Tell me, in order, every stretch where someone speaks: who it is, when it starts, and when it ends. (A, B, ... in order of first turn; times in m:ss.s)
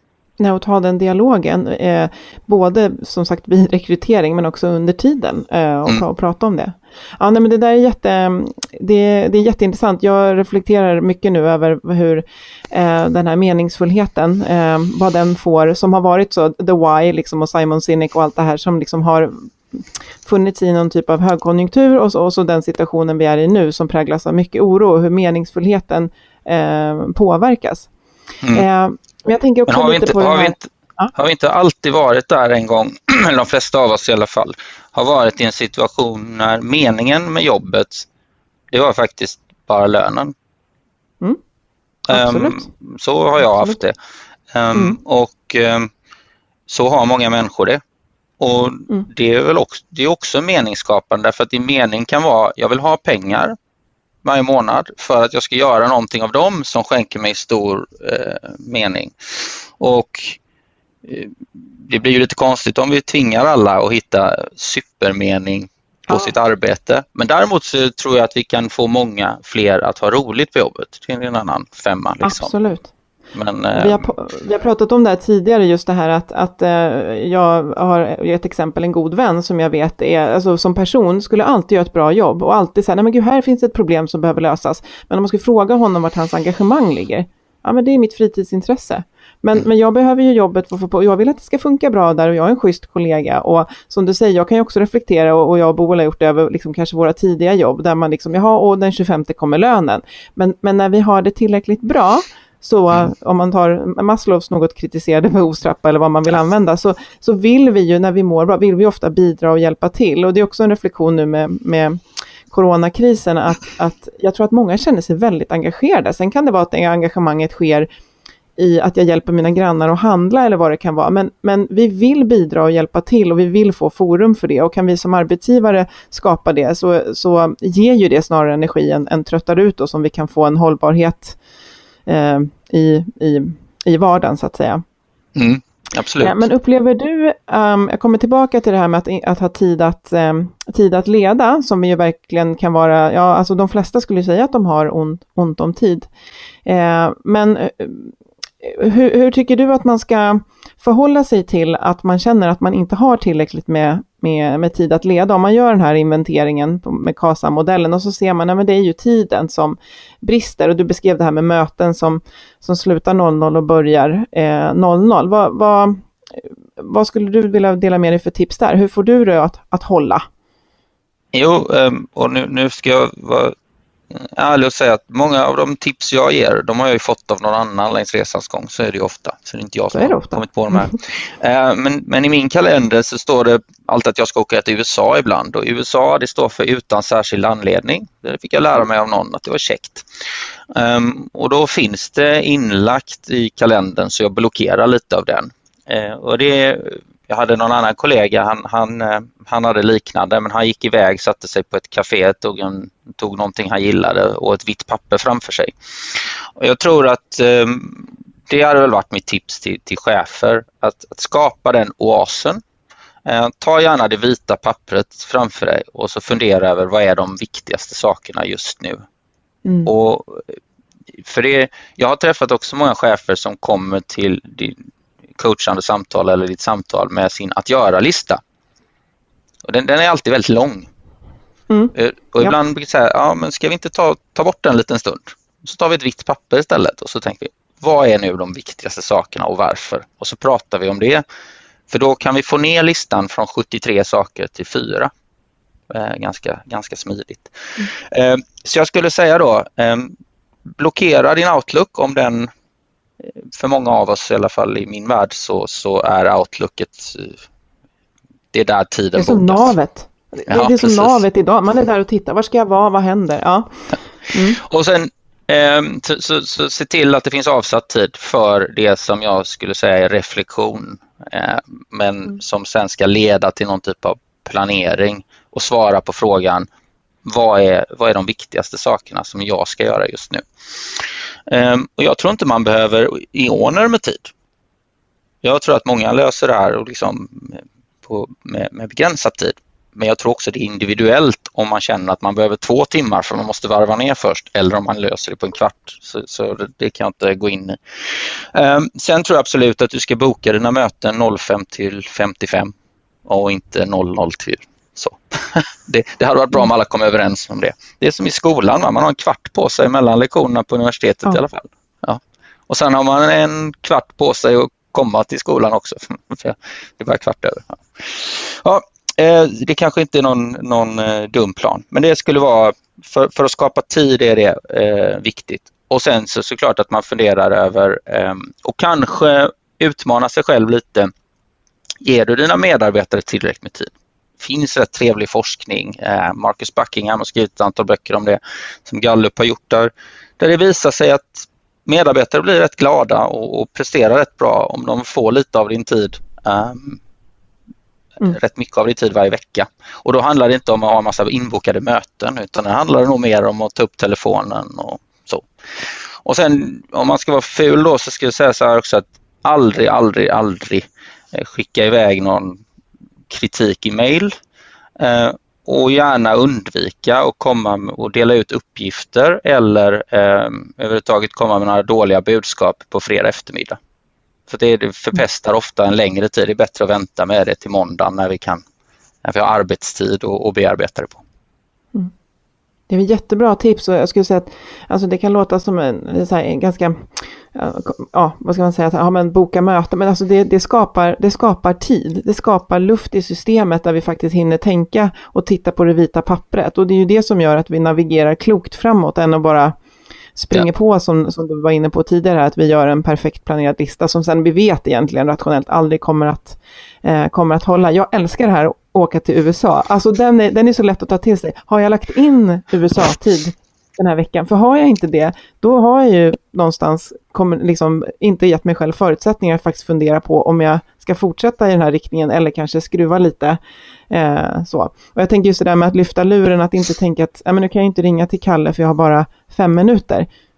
0:00.4-0:27.9 A
0:28.5-0:31.1 A
0:29.7-0:38.1 B
0:38.7-0:40.3 B
0:42.1-0:42.6 A
0:42.1-0:44.0 B
0:43.4-0:43.8 A
0:44.5-0:45.9 B
0:46.7-0:47.8 B
0:48.4-0:53.6 B
0:54.2-1:00.4 B
1:01.0-1:12.5 B
1:12.2-1:12.9 A
1:13.3-1:14.1 B
1:13.7-1:57.9 A
1:58.6-2:11.4 A
2:12.0-2:14.8 A
2:15.4-2:16.4 B
2:16.2-2:26.1 A
2:26.6-2:50.2 A
2:51.3-2:53.5 B
2:54.1-3:10.0 B
2:59.9-3:00.9 A
3:10.7-3:32.6 B
3:33.2-3:39.0 B
3:39.8-3:40.5 B
3:41.2-3:44.8 B
3:45.4-3:48.4 B
3:49.6-3:50.9 B
3:51.7-3:52.6 A
3:51.9-4:01.2 B
4:01.9-4:05.1 B
4:05.9-4:10.1 B
4:10.8-4:12.5 B
4:13.2-4:17.4 B
4:18.5-4:19.7 B
4:19.2-4:23.8 A
4:20.5-4:21.2 B
4:24.3-4:24.6 A
4:24.6-4:36.7 B
4:37.2-4:44.3 B
4:45.4-5:02.7 B
5:03.2-5:31.1 B
5:32.0-5:47.0 B
5:48.2-6:02.6 B
6:03.3-6:04.3 B
6:05.0-6:13.8 B
6:14.5-6:18.6 B
6:19.2-6:21.2 B
6:22.9-6:39.8 A
6:40.4-7:03.6 A
7:04.1-7:10.3 A